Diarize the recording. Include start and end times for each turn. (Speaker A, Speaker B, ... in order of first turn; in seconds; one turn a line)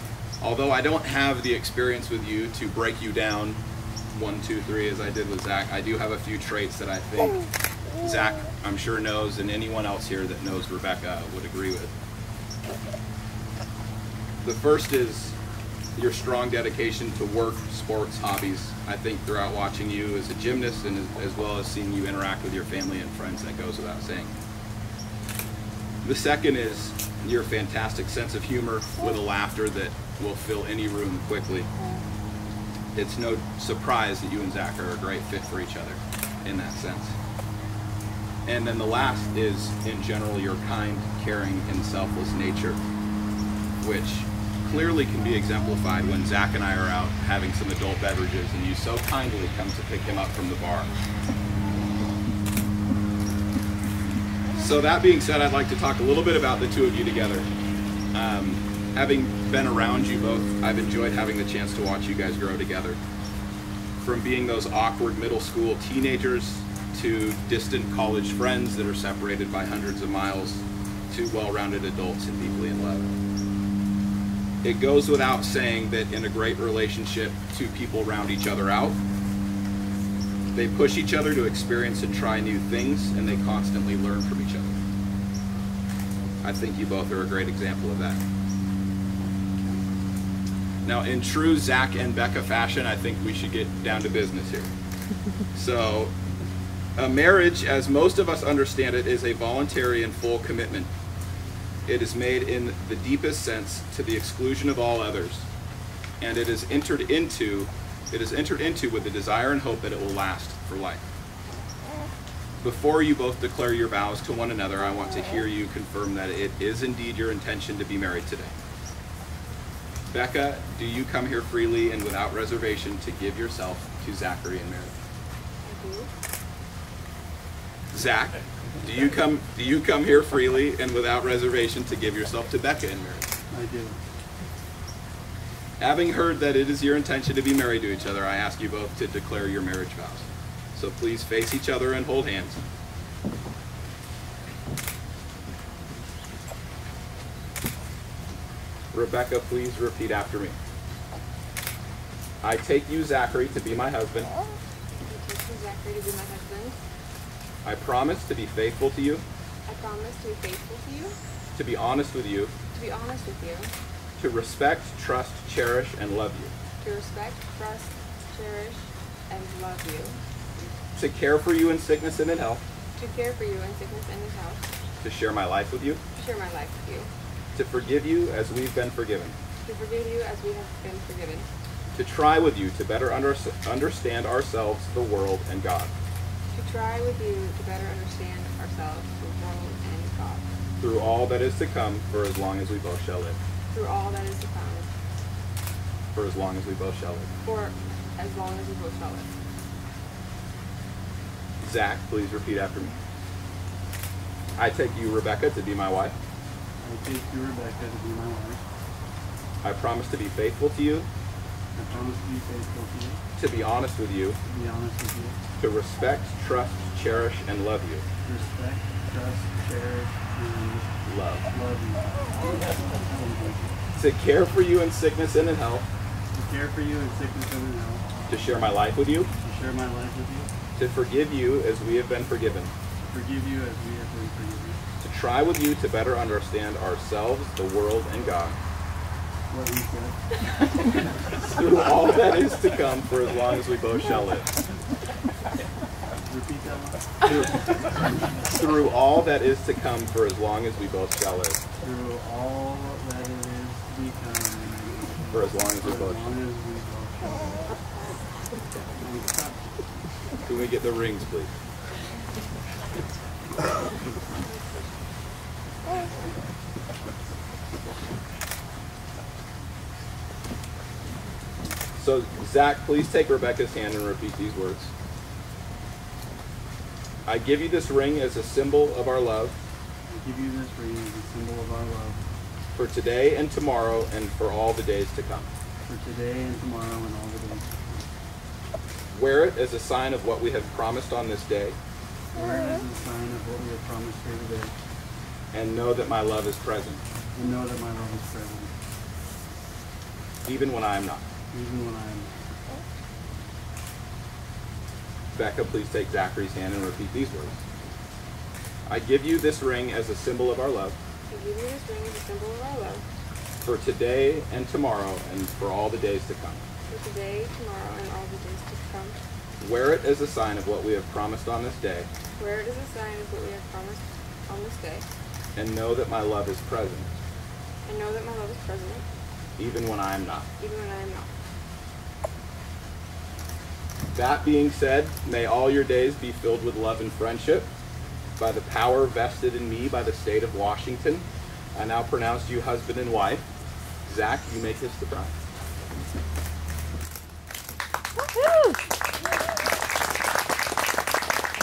Speaker A: 0.4-3.6
Speaker A: 4.1-7.4
Speaker A: 8.0-11.9
Speaker A: 14.4-15.4
Speaker A: 15.9-24.3
Speaker A: 26.0-31.7
Speaker A: 32.9-37.1
Speaker A: 38.5-42.8
Speaker A: 43.8-50.9
Speaker A: 54.5-57.5
Speaker A: 58.1-63.0
Speaker A: 64.0-73.1
Speaker A: 74.6-79.0
Speaker A: 80.5-84.8
Speaker A: 86.4-88.2
Speaker A: 90.8-94.7
Speaker A: 95.5-96.1
Speaker A: 97.0-100.9
Speaker A: 101.9-105.5
Speaker A: 106.2-111.0
Speaker A: 112.6-118.5
Speaker A: 120.1-124.9
Speaker B: 125.6-126.1
Speaker A: 127.9-133.3
Speaker C: 133.5-134.0
Speaker A: 135.8-142.6
Speaker A: 148.9-150.6
Speaker A: 152.4-154.3
Speaker B: 155.0-156.8
Speaker A: 157.6-159.2
Speaker B: 159.7-161.2
Speaker A: 161.5-162.5
Speaker B: 162.7-163.7
Speaker A: 164.2-166.5
Speaker B: 166.8-170.2
Speaker A: 171.0-172.6
Speaker B: 173.0-174.6
Speaker A: 175.0-176.0
Speaker B: 176.1-177.1
Speaker A: 177.5-179.4
Speaker B: 179.6-181.5
Speaker A: 181.9-185.9
Speaker B: 186.5-190.4
Speaker A: 190.8-193.4
Speaker B: 193.7-194.9
Speaker A: 196.1-197.3
Speaker B: 197.4-199.3
Speaker A: 201.6-203.0
Speaker A: 204.6-206.1
Speaker C: 206.8-208.6
Speaker A: 209.6-211.1
Speaker C: 211.8-213.2
Speaker A: 213.4-214.4
Speaker C: 214.5-215.4
Speaker A: 215.6-218.0
Speaker C: 218.2-220.9
Speaker A: 221.0-221.5
Speaker C: 221.5-223.8
Speaker A: 223.9-225.9
Speaker C: 226.3-228.0
Speaker A: 228.3-229.3
Speaker C: 229.4-230.5
Speaker A: 230.8-232.7
Speaker C: 233.0-234.8
Speaker A: 235.0-238.6
Speaker C: 239.5-240.2
Speaker A: 241.3-244.5
Speaker C: 246.2-247.0
Speaker A: 248.5-251.6
Speaker C: 251.8-257.6
Speaker A: 255.3-256.3
Speaker C: 259.0-259.6
Speaker A: 260.4-261.5
Speaker B: 264.3-264.9
Speaker A: 272.0-274.9
Speaker A: 277.2-279.6
Speaker C: 280.1-282.2
Speaker A: 282.8-285.5
Speaker C: 285.9-288.1
Speaker A: 289.1-291.8
Speaker C: 292.3-294.8
Speaker A: 295.5-297.0
Speaker C: 297.3-298.7
Speaker A: 300.4-301.2
Speaker C: 301.5-302.4
Speaker A: 305.3-307.6
Speaker A: 308.9-311.0
Speaker B: 311.3-313.0
Speaker A: 313.6-316.6
Speaker B: 316.9-319.2
Speaker A: 319.6-322.1
Speaker B: 322.4-325.1
Speaker A: 325.6-327.1
Speaker B: 327.9-329.0
Speaker A: 329.6-330.5
Speaker B: 330.6-331.3
Speaker A: 334.1-337.7
Speaker A: 338.4-343.4
Speaker A: 344.0-345.3